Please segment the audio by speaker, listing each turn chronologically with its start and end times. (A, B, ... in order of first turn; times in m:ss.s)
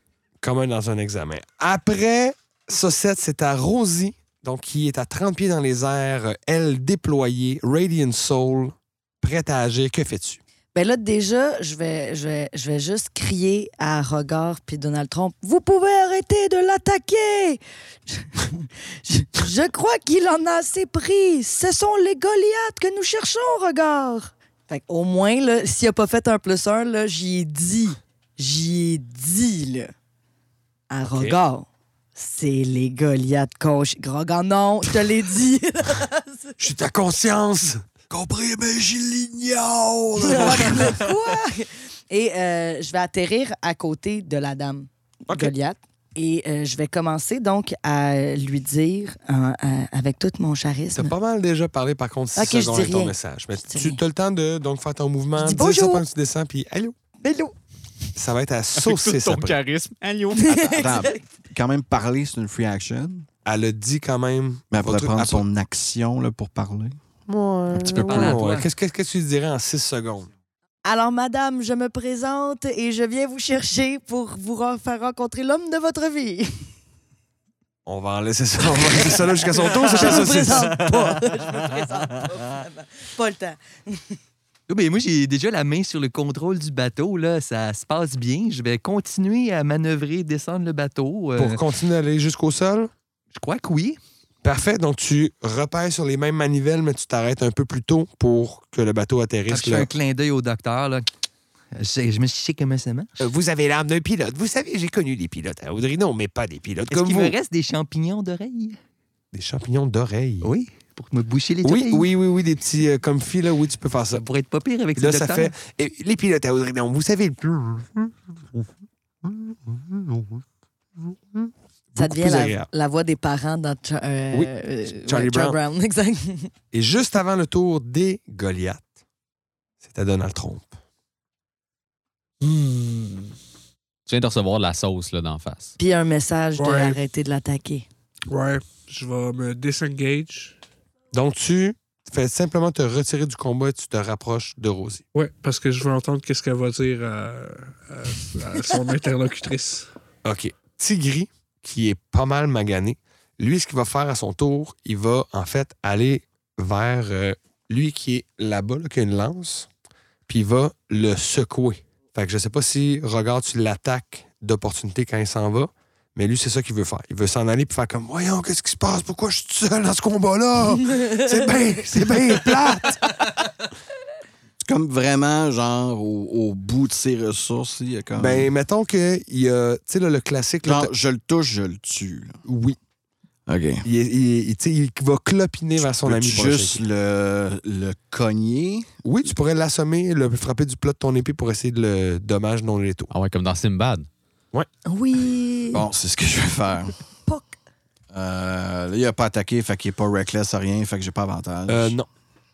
0:00.4-0:10.4 A
0:10.7-0:29.9 B
0:30.9-0:36.6 B
0:31.0-0:31.4 A
0:36.6-0:37.9 A
0:38.1-0:41.1 C
0:40.2-0:51.1 B
0:40.2-0:40.9 A
0:51.0-0:57.0 A
0:52.4-0:54.0 B
0:55.4-0:56.0 B
0:57.2-0:57.6 B
0:58.2-0:59.6 A
0:58.8-1:01.0 D
1:00.3-1:01.2 B
1:00.8-1:03.3 C
1:03.4-1:05.5 A
1:04.7-1:07.0 C
1:07.3-1:10.3 A
1:07.7-1:08.4 C
1:07.8-1:08.7 E
1:10.8-1:16.7 B
1:17.8-1:21.1 A
1:19.6-1:24.2 B
1:19.9-1:21.0 E
1:24.7-1:31.6 E
1:31.4-1:32.9 A
1:33.3-1:34.0 E
1:34.4-1:39.9 A
1:39.5-1:41.1 E
1:41.7-1:43.1 E
1:43.2-1:47.4 A
1:46.9-1:48.8 E
1:49.3-1:50.5 A
1:50.4-1:52.1 E
1:51.6-1:54.2 A
1:54.1-1:55.6 E
1:55.0-1:58.7 A
1:59.2-2:00.4 A
2:01.0-2:02.7 A
2:02.0-2:06.5 B
2:04.3-2:05.6 A
2:06.7-2:08.9 A
2:09.8-2:10.7 A
2:14.1-2:15.8 D
2:15.8-2:17.9 B
2:16.6-2:17.0 F
2:18.3-2:20.6 F
2:21.1-2:25.0 A
2:25.1-2:29.9 F
2:30.2-2:39.7 A
2:40.3-2:53.0 A
2:54.6-2:58.5 C
2:58.2-3:00.9 A
3:00.6-3:02.4 C
3:02.4-3:02.8 A
3:03.5-3:03.8 C
3:03.8-3:06.8 A
3:05.9-3:08.9 C
3:09.0-3:13.1 A
3:13.1-3:14.1 D
3:14.8-3:15.9 B
3:15.7-3:17.0 C
3:17.3-3:17.6 B
3:18.1-3:22.0 C
3:21.7-3:22.1 A